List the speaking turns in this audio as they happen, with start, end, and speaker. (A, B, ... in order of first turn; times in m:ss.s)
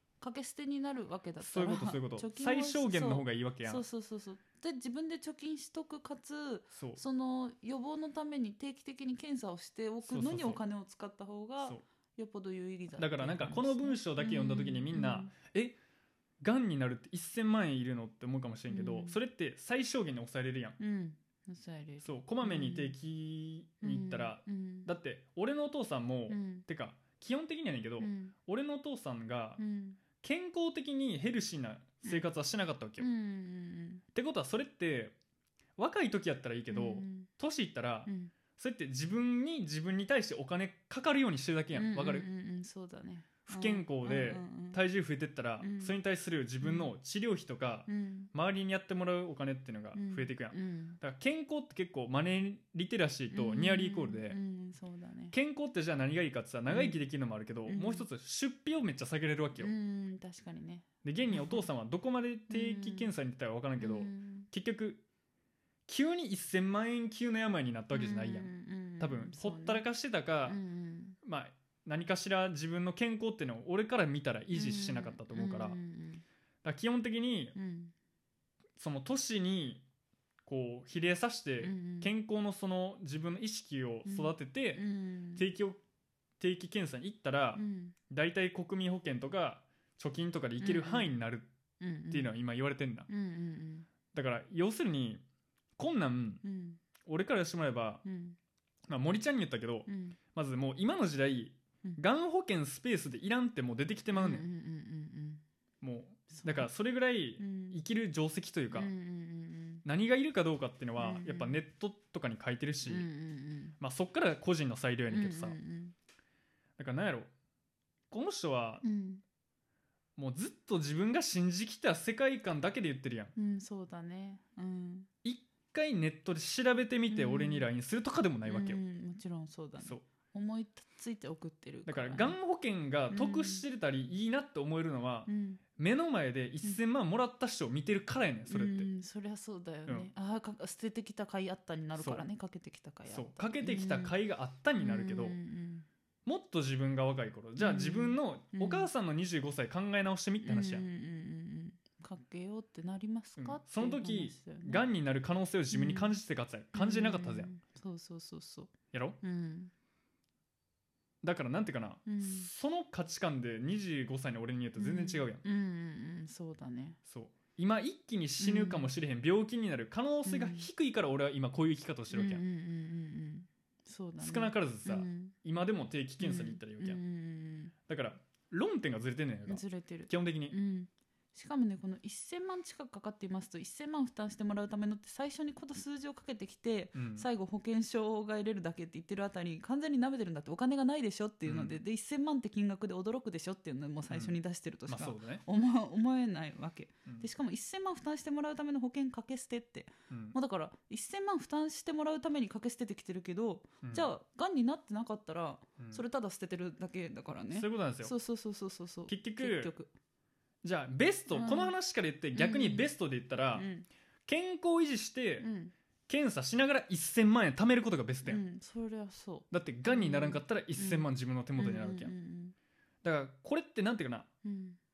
0:00.2-0:15.3 A
0:01.4-0:03.8 B
0:06.8-0:07.0 B
0:10.0-0:10.6 B
0:13.0-0:15.8 B
0:16.4-0:20.8 B
0:18.7-0:19.2 A
0:20.8-0:23.0 A
0:22.0-0:29.6 B
0:23.8-0:24.9 A
0:26.3-0:26.6 A
0:28.0-0:28.3 A
0:29.6-0:30.0 A
0:30.2-0:33.1 B
0:33.0-0:34.0 A
0:34.1-0:35.2 B
0:35.8-0:42.3 B
0:36.7-0:37.3 A
0:38.0-0:38.3 A
0:41.7-0:44.8 A
0:43.4-0:54.4 B
0:45.6-0:46.0 A
0:46.6-0:46.9 A
0:47.9-0:48.3 A
0:49.9-0:51.0 A
0:53.3-0:55.3 A
0:55.3-0:59.7 B
0:56.7-0:57.0 A
0:57.7-0:58.1 A
0:59.6-1:01.7 A
1:01.0-1:05.0 B
1:02.5-1:03.1 A
1:03.8-1:04.5 A
1:05.9-1:10.6 B
1:07.9-1:09.8 A
1:10.4-1:11.2 A
1:11.2-1:15.8 B
1:14.5-1:16.2 A
1:16.6-1:17.6 B
1:17.5-1:17.9 A
1:18.8-1:19.8 B
1:20.4-1:25.8 B
1:21.6-1:22.1 A
1:24.0-1:25.4 A
1:26.4-1:31.5 B
1:27.5-1:28.0 A
1:30.6-1:31.1 A
1:31.8-1:32.3 A
1:32.1-1:33.1 B
1:33.1-1:33.9 A
1:34.1-1:35.2 B
1:35.8-1:36.4 B
1:36.4-1:36.8 A
1:37.0-1:38.0 B
1:38.0-1:38.4 A
1:38.9-1:44.4 B
1:39.9-1:40.2 A
1:44.1-1:45.4 A
1:45.8-1:48.9 B
1:46.3-1:46.7 A
1:47.4-1:47.8 A
1:48.7-1:49.8 A
1:49.8-1:53.1 B
1:51.0-1:51.6 A
1:52.8-1:53.8 A
1:53.8-1:55.6 B
1:55.1-1:55.9 A
1:56.8-1:57.3 B
1:58.1-1:58.8 B
1:58.8-1:59.2 A
2:00.2-2:03.3 B
2:03.4-2:05.1 A
2:05.2-2:08.8 B
2:07.1-2:07.7 A
2:08.5-2:12.4 A
2:11.8-2:18.9 B
2:13.1-2:13.6 A
2:15.2-2:15.6 A
2:18.5-2:24.2 A
2:22.0-2:22.2 B
2:23.1-2:25.4 B
2:24.8-2:25.9 A
2:26.2-2:30.9 B
2:27.6-2:28.9 A
2:30.4-2:34.8 A
2:33.4-2:37.5 B
2:35.7-2:36.1 A
2:36.7-2:39.7 A
2:38.9-2:39.2 B
2:41.2-2:45.4 B
2:42.0-2:42.5 A
2:44.8-2:47.0 A
2:47.0-2:52.4 B
2:48.4-2:48.9 A
2:50.2-2:50.7 A
2:52.1-2:55.4 A
2:54.2-2:57.0 B
2:56.2-2:57.7 A
2:57.9-3:00.6 B
2:59.4-3:29.9 A
3:06.9-3:07.3 B
3:11.4-3:11.8 B
3:14.1-3:14.3 B
3:14.9-3:15.4 B
3:20.1-3:20.4 B
3:23.8-3:24.1 B
3:27.5-3:28.1 B
3:29.1-3:29.7 B
3:30.6-3:33.7 B
3:31.3-3:31.7 A
3:32.3-3:32.9 A
3:33.5-3:33.9 A
3:34.2-3:35.5 B
3:35.4-3:35.7 A
3:36.1-3:38.4 B
3:38.2-3:42.5 A
3:39.5-3:42.1 B
3:43.0-3:44.3 B
3:44.4-3:44.8 A